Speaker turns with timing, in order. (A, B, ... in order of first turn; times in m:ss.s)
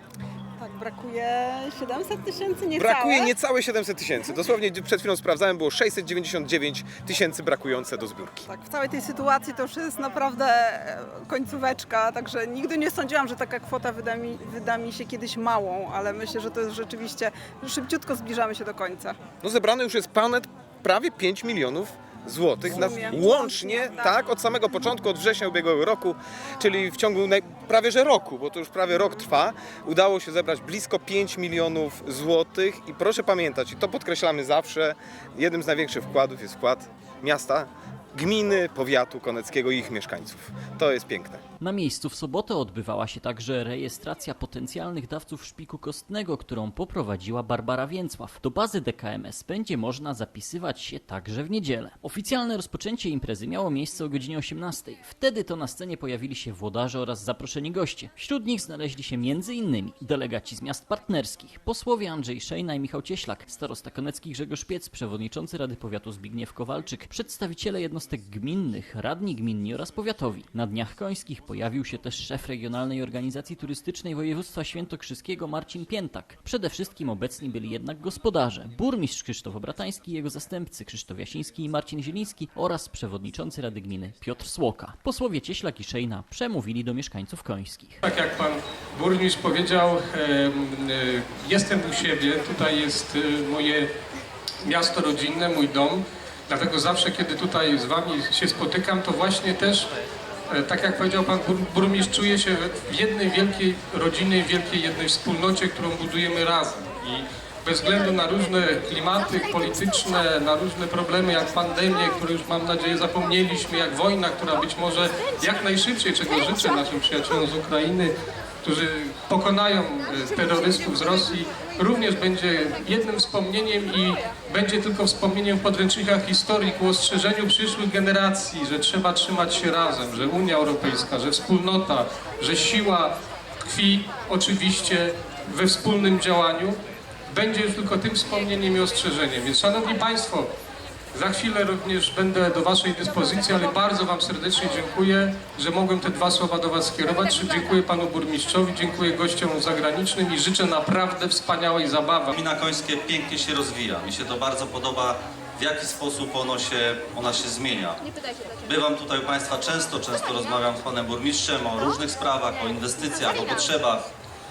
0:00.6-0:03.4 A
0:02.8-0:08.4 B
0:08.5-0:19.2 A
0:19.4-0:41.4 B
0:22.7-0:24.1 A
0:41.6-1:28.0 C
1:28.0-1:33.9 D
1:34.6-1:39.9 D
1:40.5-1:58.1 D
1:58.6-2:13.1 D
2:13.6-2:16.8 D
2:17.3-2:20.5 D
2:21.1-2:32.3 D
2:32.3-2:38.0 E
2:38.6-2:44.0 E